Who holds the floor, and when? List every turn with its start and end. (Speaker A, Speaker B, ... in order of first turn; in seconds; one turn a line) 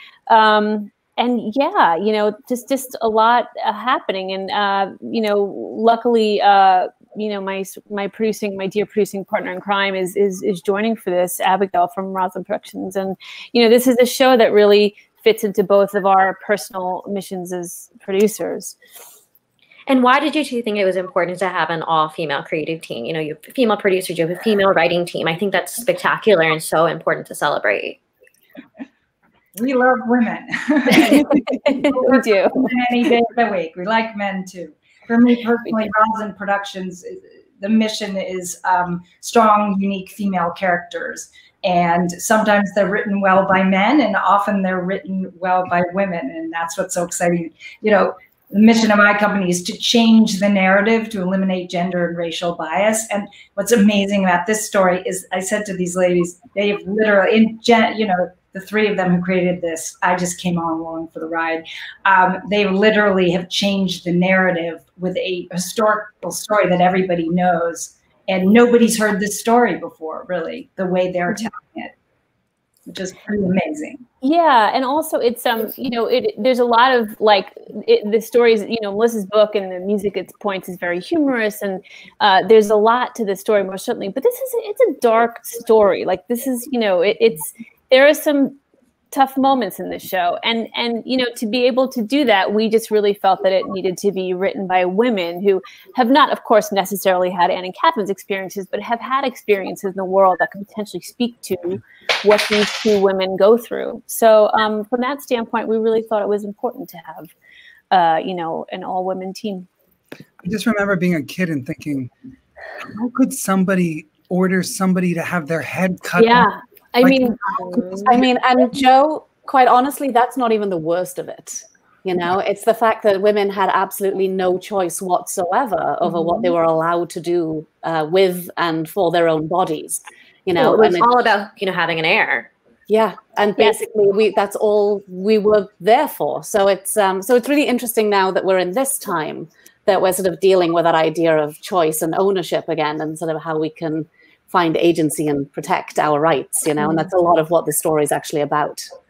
Speaker A: 0.3-18.8
Speaker B: 19.9-28.0
Speaker C: 29.5-71.9
Speaker A: 31.0-32.7
Speaker C: 72.8-74.0
Speaker A: 74.2-88.6
Speaker A: 89.1-107.3
Speaker A: 107.9-109.7
Speaker D: 110.4-112.1
Speaker D: 112.9-116.5
Speaker A: 116.2-117.4
Speaker D: 117.0-118.2
Speaker B: 117.6-118.0
Speaker E: 118.1-131.1
Speaker A: 126.0-126.5
Speaker B: 130.6-132.5
Speaker E: 132.9-148.9
Speaker A: 146.8-147.1